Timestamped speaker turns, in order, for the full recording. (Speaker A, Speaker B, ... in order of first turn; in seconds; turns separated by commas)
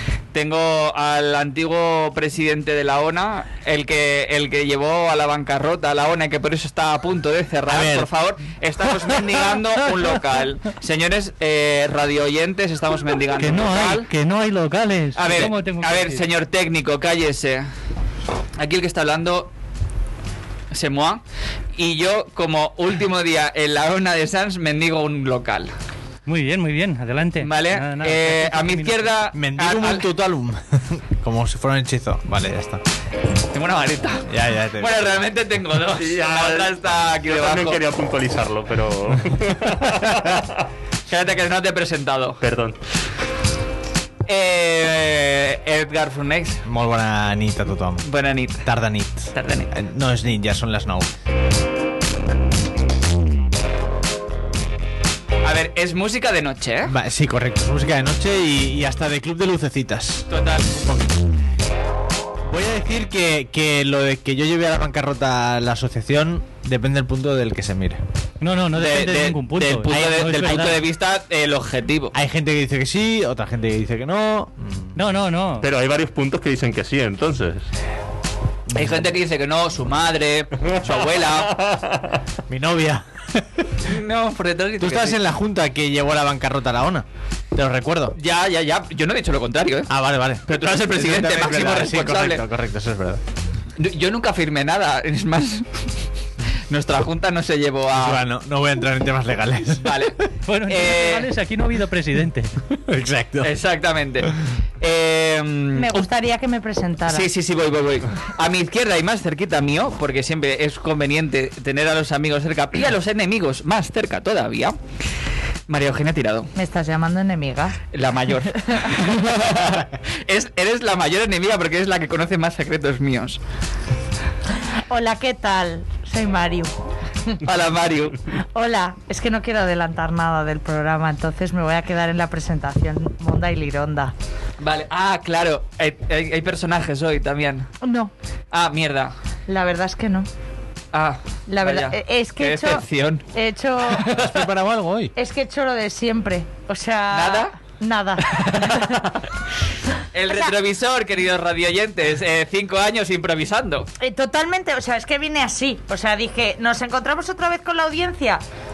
Speaker A: 0.3-14.1, Speaker B: 7.7-8.1, Speaker C: 13.4-16.2, Speaker A: 15.2-17.7, Speaker A: 18.6-19.5, Speaker A: 20.7-21.2, Speaker A: 21.8-25.7, Speaker C: 26.3-29.1, Speaker A: 27.4-30.1, Speaker B: 29.3-32.8, Speaker A: 33.5-34.3, Speaker B: 34.3-35.0, Speaker A: 34.8-37.8, Speaker D: 36.0-40.4, Speaker A: 41.1-42.4, Speaker D: 42.4-42.8, Speaker A: 44.3-46.6, Speaker B: 46.6-48.0, Speaker A: 48.0-48.7, Speaker B: 48.6-51.1, Speaker A: 49.3-49.7, Speaker A: 55.4-56.9, Speaker B: 56.9-60.3, Speaker A: 60.3-61.0, Speaker B: 62.5-68.0, Speaker C: 68.4-70.8, Speaker A: 68.7-72.2, Speaker B: 72.1-75.0, Speaker C: 75.0-75.7, Speaker D: 75.6-77.7, Speaker B: 78.7-79.1, Speaker A: 78.8-81.5, Speaker B: 82.5-83.6, Speaker A: 83.8-85.2, Speaker B: 84.8-88.2, Speaker A: 88.2-89.9, Speaker B: 89.9-93.2, Speaker A: 90.5-92.4, Speaker A: 93.8-95.7, Speaker A: 96.7-98.2, Speaker B: 97.9-99.9, Speaker A: 99.8-101.3, Speaker C: 100.5-102.5, Speaker B: 102.9-103.5, Speaker A: 103.4-106.1, Speaker E: 105.8-107.3, Speaker A: 107.1-114.8, Speaker A: 115.7-116.5, Speaker E: 116.5-117.8, Speaker A: 117.9-123.4, Speaker E: 124.7-126.7, Speaker A: 127.4-128.2, Speaker E: 128.5-134.1, Speaker A: 134.6-137.7, Speaker E: 137.8-138.1, Speaker A: 138.5-139.2, Speaker E: 139.5-140.3, Speaker A: 140.9-143.2, Speaker E: 141.5-144.2, Speaker B: 144.0-145.1, Speaker E: 145.2-148.9, Speaker A: 147.1-147.5, Speaker A: 148.3-149.2, Speaker A: 150.1-153.9, Speaker E: 150.3-150.5, Speaker E: 154.0-158.4